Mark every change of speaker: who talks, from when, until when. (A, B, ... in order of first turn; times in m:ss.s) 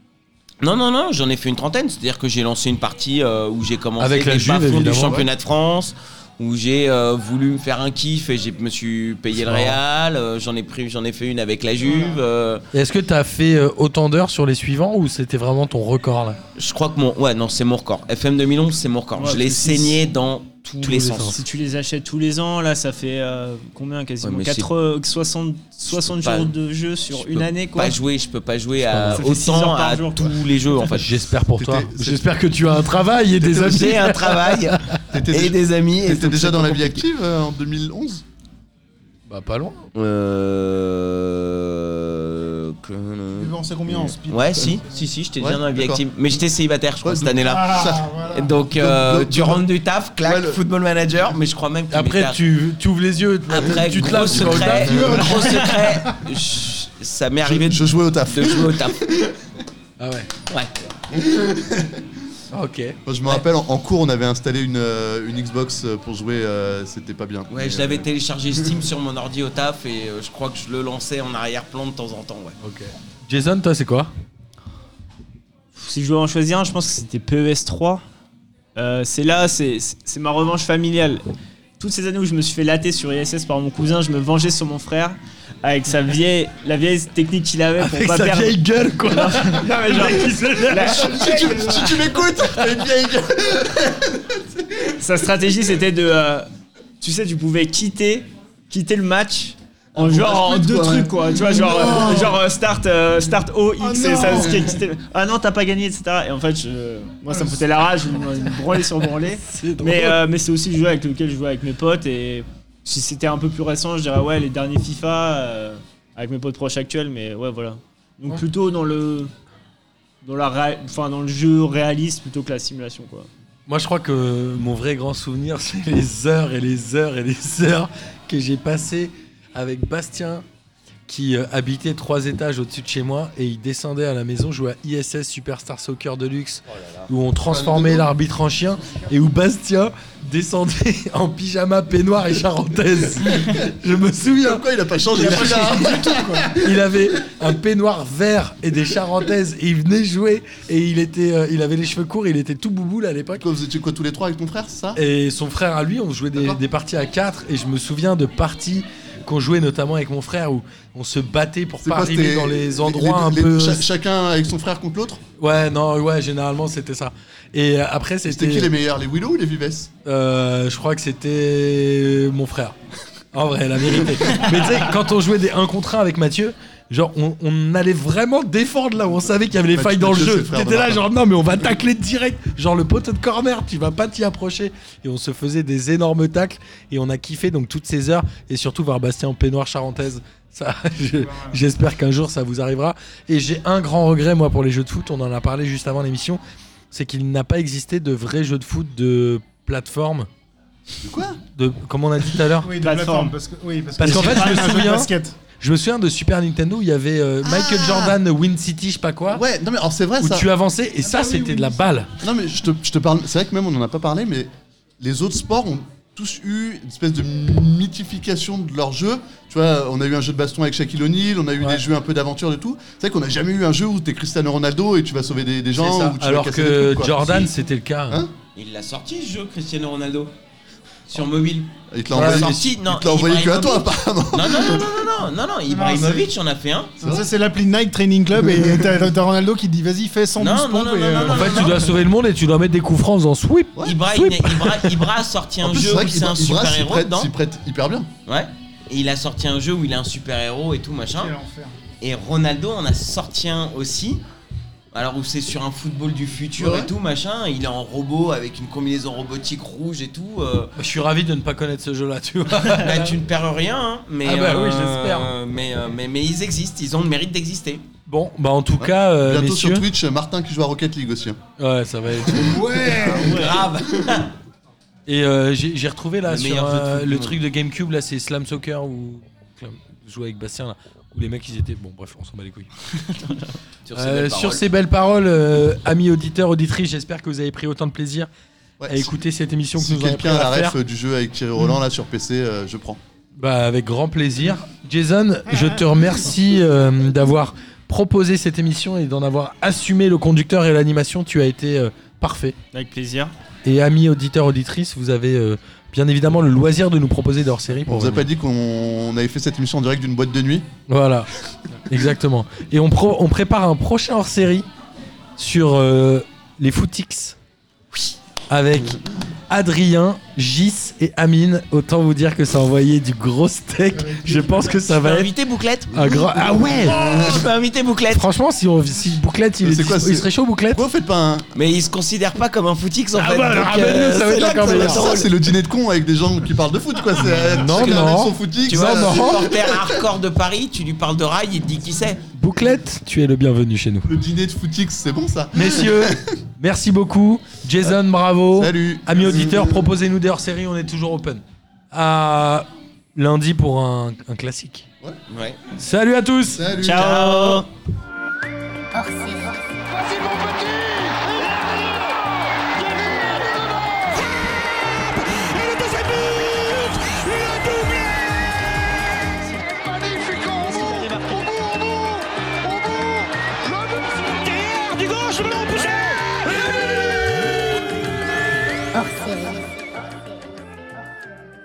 0:00.6-0:12.6 A
0:04.0-0:05.3 B
0:09.3-0:09.8 B
0:12.7-0:16.4 B
0:16.6-0:21.4 A
0:19.1-0:20.0 C
0:20.8-0:21.4 B
0:21.2-0:28.0 C
0:24.2-0:24.7 A
0:25.8-0:26.6 A
0:27.1-0:31.1 A
0:28.8-0:29.3 B
0:29.1-0:31.0 C
0:30.9-0:35.0 B
0:31.6-0:32.5 D
0:33.4-0:37.0 A
0:33.5-0:34.0 D
0:35.1-0:38.2 D
0:39.3-0:39.9 B
0:39.9-0:43.6 A
0:43.4-0:45.1 E
0:44.1-0:47.8 A
0:45.4-0:46.0 D
0:47.0-0:49.6 D
0:47.4-0:48.6 E
0:48.3-0:52.4 A
0:50.2-0:50.6 D
0:51.9-0:55.6 B
0:53.5-0:59.0 A
0:54.6-0:56.2 E
0:57.4-0:59.4 D
1:00.0-1:00.3 B
1:00.5-1:00.8 A
1:01.1-1:02.1 D
1:02.5-1:03.0 B
1:03.1-1:08.6 D
1:07.5-1:12.6 A
1:12.6-1:14.1 B
1:15.7-1:18.0 C
1:18.8-1:21.2 C
1:21.8-1:31.6 C
1:27.8-1:31.5 B
1:30.8-1:35.0 D
1:31.2-1:31.9 E
1:35.0-1:36.5 C
1:37.0-1:59.3 C
1:39.9-1:42.4 D
1:41.3-1:42.2 E
1:43.8-1:44.8 E
1:47.3-1:48.6 E
1:49.4-1:50.2 B
2:00.2-2:03.3 C
2:03.7-2:10.4 B
2:11.1-2:25.8 B
2:16.7-2:17.1 A
2:17.4-2:18.1 D
2:23.2-2:23.7 D
2:24.4-2:27.0 D
2:25.1-2:26.6 E
2:26.6-2:33.5 B
2:33.4-2:35.0 D
2:35.0-2:43.8 B
2:36.4-2:36.6 D
2:41.8-2:45.2 D
2:45.4-2:48.7 B
2:48.2-2:49.9 D
2:50.0-2:52.7 B
2:53.3-3:16.4 B
2:59.7-3:01.1 D
3:11.2-3:11.6 E
3:16.9-3:20.3 B
3:21.0-3:21.4 D
3:21.6-3:22.7 B
3:22.6-3:25.4 E
3:22.8-3:23.3 C
3:24.0-3:25.1 B
3:24.1-3:24.6 C
3:25.6-3:29.4 B
3:27.4-3:28.2 D
3:29.3-3:30.5 D
3:30.2-3:32.1 B
3:31.0-3:31.8 E
3:32.2-3:47.5 D
3:45.8-3:48.2 B
3:48.6-3:50.3 A
3:51.1-3:57.0 A
3:51.9-3:55.0 D
3:52.1-3:52.6 B
3:55.7-3:56.3 E
3:57.0-3:57.3 D
3:57.0-4:01.7 E
3:58.4-3:59.0 D
4:00.4-4:01.9 A
4:01.2-4:05.0 B
4:03.8-4:07.3 A
4:05.6-4:08.1 D
4:08.3-4:11.4 A
4:11.1-4:11.8 E
4:12.0-4:14.2 A
4:14.9-4:20.7 A
4:16.6-4:16.9 D
4:20.8-4:23.2 B
4:22.6-4:27.8 A
4:24.2-4:25.3 B
4:28.1-4:29.9 B
4:28.8-4:31.4 D
4:31.6-4:32.8 B
4:32.3-4:33.6 E
4:32.6-4:33.1 D
4:33.0-4:34.3 A
4:33.1-4:33.6 C
4:35.1-4:42.7 B
4:36.3-4:37.4 A
4:43.8-4:44.7 A
4:43.9-4:48.3 B
4:48.8-4:49.2 D
4:48.9-4:50.8 B
4:49.8-4:53.0 D
4:53.4-5:02.6 B
5:02.7-5:03.3 C
5:03.6-5:08.3 B
5:07.8-5:10.7 D
5:10.9-5:11.3 B
5:11.8-5:14.7 B
5:15.4-5:17.4 B
5:18.5-5:25.3 B
5:23.9-5:24.7 E
5:24.7-5:28.3 A
5:25.9-5:27.0 B
5:26.0-5:27.4 D
5:28.1-5:30.8 B
5:29.6-5:31.5 D
5:31.5-5:35.4 A
5:33.1-5:35.1 B
5:34.7-5:40.0 D
5:37.3-5:39.5 B
5:38.7-5:42.2 A
5:42.3-5:44.1 B
5:44.0-5:46.4 D
5:45.5-5:54.8 B
5:48.6-5:49.9 D
5:55.3-5:55.6 A
5:55.8-5:56.6 B
5:56.5-5:57.1 D
5:56.8-5:57.7 C
5:56.9-5:57.7 A
5:58.9-6:08.7 F
6:09.2-6:18.2 F
6:18.9-6:20.4 F